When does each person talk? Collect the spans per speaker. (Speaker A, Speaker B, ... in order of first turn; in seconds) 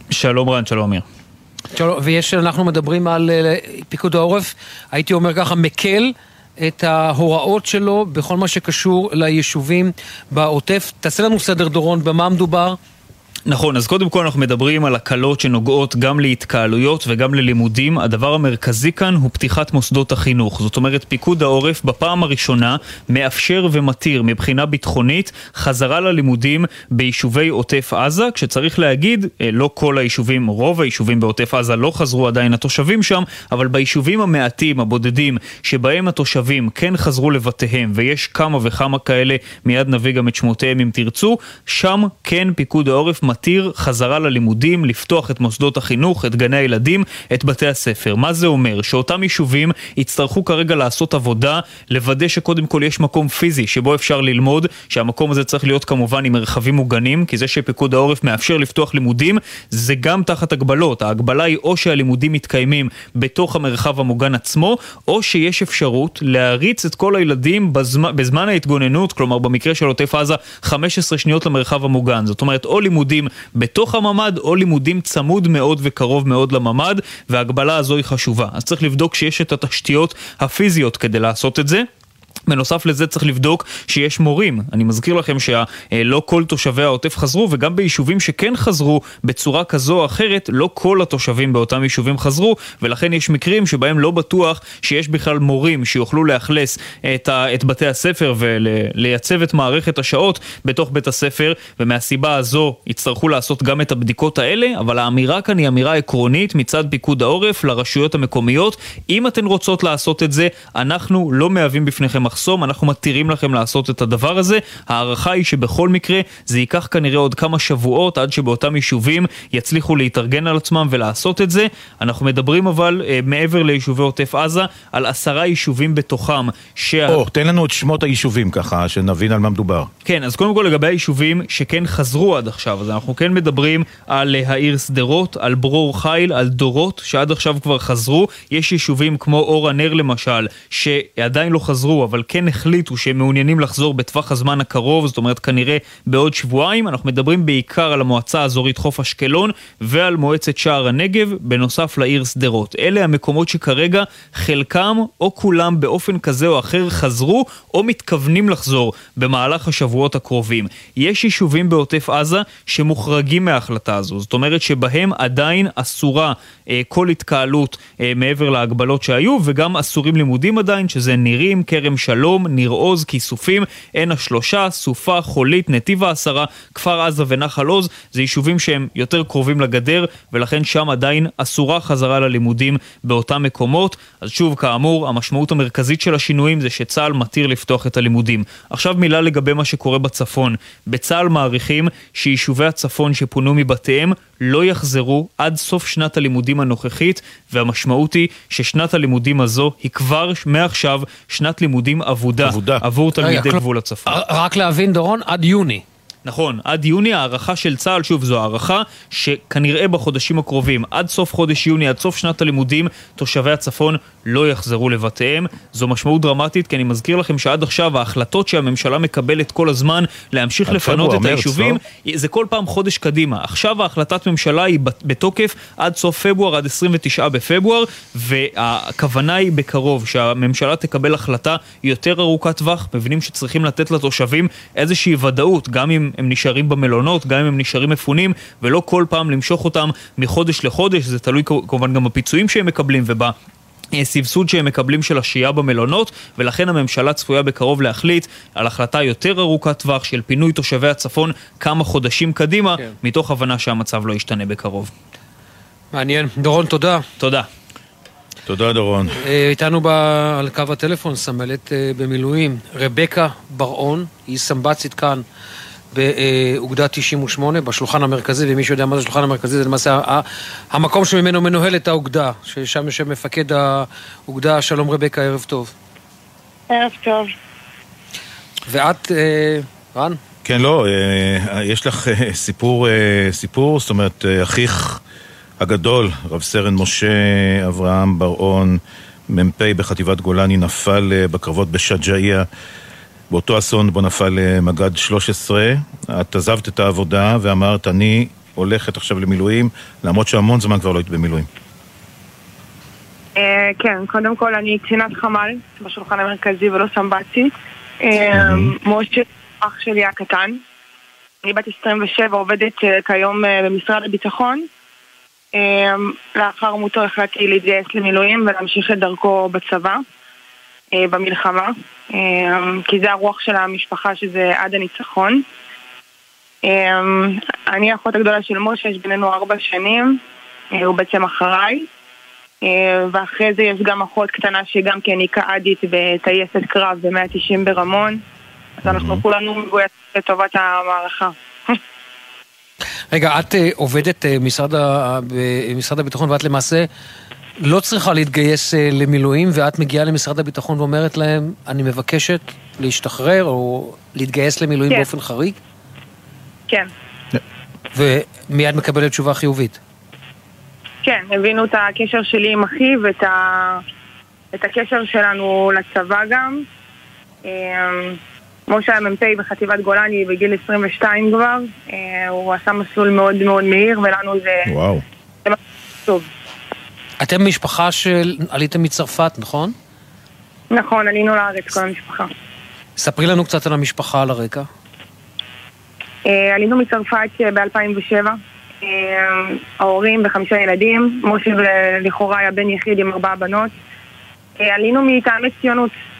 Speaker A: 0.1-1.1, 13.5-81.8, 82.5-127.2, 130.1-204.2, 206.3-243.3, 243.9-254.9, 257.2-257.5
Speaker B: 1.7-12.8, 203.2-205.8, 255.9-257.1, 259.2-265.2, 265.9-275.7, 278.7-280.2, 343.1-346.9, 347.6-355.6, 357.9-359.8, 377.2-379.8, 383.0-384.7
Speaker C: 127.1-129.9, 202.4-202.8, 220.7-221.8, 258.5-259.2, 280.4-285.0, 285.6-292.5, 293.3-301.5, 308.3-308.8, 338.8-339.2, 374.7-375.0
Speaker D: 276.7-277.3, 303.4-307.5, 308.0-310.6, 311.4-314.7, 315.6-320.0, 320.9-325.4, 326.6-330.2, 330.8-331.9, 332.6-338.2, 338.9-341.8, 361.0-363.8, 364.5-366.6, 367.4-374.7, 375.5-376.3, 380.7-382.3, 386.3-393.7, 394.6-395.9